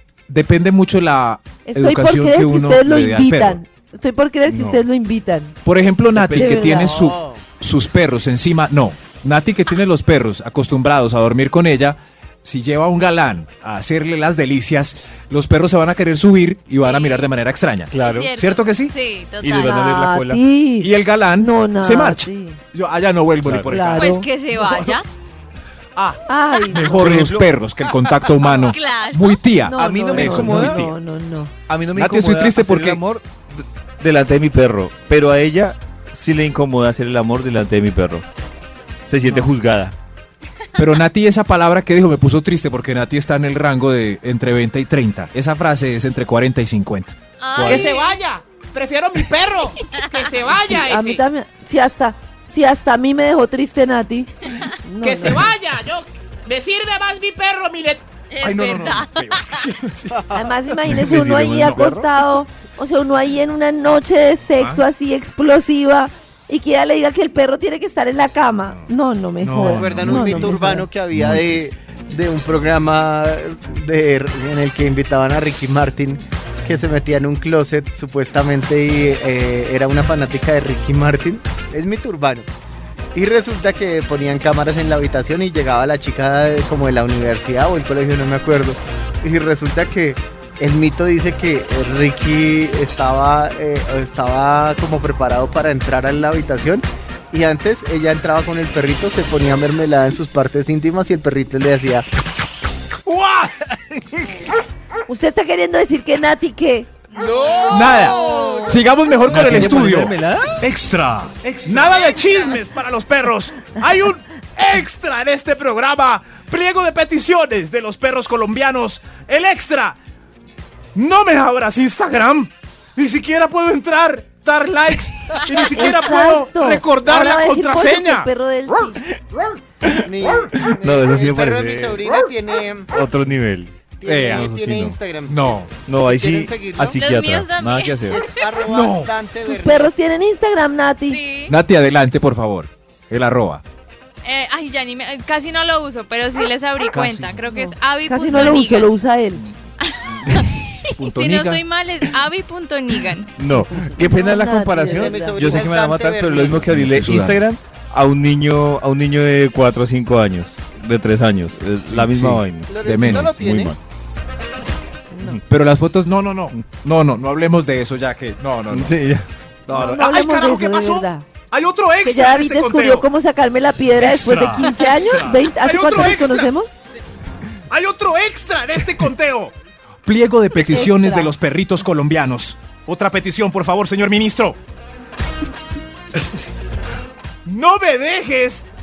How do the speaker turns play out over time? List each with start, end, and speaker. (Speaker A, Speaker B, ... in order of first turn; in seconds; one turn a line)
Speaker A: 0.3-3.6
Speaker B: 1.6-5.6
Speaker C: 4.5-4.8
Speaker A: 5.6-18.9
Speaker B: 6.2-7.0
Speaker C: 6.2-6.5
Speaker D: 6.6-7.4
Speaker E: 16.9-17.1
Speaker C: 17.9-18.4
Speaker E: 18.1-19.8
Speaker C: 19.4-20.4
Speaker B: 19.6-22.6
Speaker A: 20.8-24.9
Speaker C: 23.4-23.7
Speaker B: 23.7-24.3
Speaker E: 23.9-25.1
Speaker A: 26.0-30.9
Speaker B: 26.3-27.1
Speaker C: 26.9-27.5
Speaker E: 28.7-29.1
Speaker B: 29.6-31.5
Speaker C: 29.8-30.9
Speaker C: 31.7-38.2
Speaker A: 31.9-33.0
Speaker C: 39.1-40.0
Speaker A: 40.8-47.1
Speaker C: 47.5-47.9
Speaker F: 47.6-51.2
Speaker B: 50.5-54.3
Speaker B: 54.8-55.5
Speaker F: 55.0-58.0
Speaker E: 58.3-59.1
Speaker A: 58.4-60.3
Speaker B: 60.3-70.9
Speaker C: 60.9-62.1
Speaker A: 64.6-64.8
Speaker A: 69.5-71.7
Speaker C: 69.5-70.6
Speaker D: 69.5-82.5
Speaker D: 83.1-102.0
Speaker G: 103.1-103.7
Speaker B: 105.1-106.9
Speaker D: 107.1-108.8
Speaker A: 107.7-112.0
Speaker B: 108.2-108.6
Speaker C: 109.3-110.6
Speaker G: 111.7-120.0
Speaker F: 111.8-112.6
Speaker G: 121.0-128.3
Speaker B: 125.7-129.0
Speaker C: 129.8-132.1
Speaker D: 130.0-132.9
Speaker C: 132.9-135.0
Speaker D: 134.0-137.0
Speaker A: 134.0-134.5
Speaker A: 135.3-135.7
Speaker C: 135.9-138.2
Speaker E: 137.0-138.6
Speaker D: 138.1-139.9
Speaker A: 138.6-139.1
Speaker B: 139.4-141.2
Speaker E: 141.1-141.5
Speaker A: 141.5-143.6
Speaker E: 144.3-148.9
Speaker A: 146.9-147.5
Speaker B: 147.4-149.4
Speaker A: 148.3-148.6
Speaker C: 150.2-150.5
Speaker A: 150.9-151.7
Speaker E: 151.2-153.3
Speaker C: 153.4-163.8
Speaker B: 153.8-155.6
Speaker D: 154.8-156.7
Speaker A: 156.4-157.4
Speaker A: 161.9-163.4
Speaker D: 162.7-163.8
Speaker B: 165.1-165.4
Speaker A: 165.5-169.0
Speaker C: 168.7-169.3
Speaker A: 169.7-170.1
Speaker B: 169.7-171.3
Speaker G: 169.7-173.1
Speaker B: 172.0-176.7
Speaker A: 174.0-174.7
Speaker G: 174.1-176.5
Speaker G: 177.7-179.5
Speaker A: 180.1-184.6
Speaker B: 180.6-181.3
Speaker G: 187.4-188.7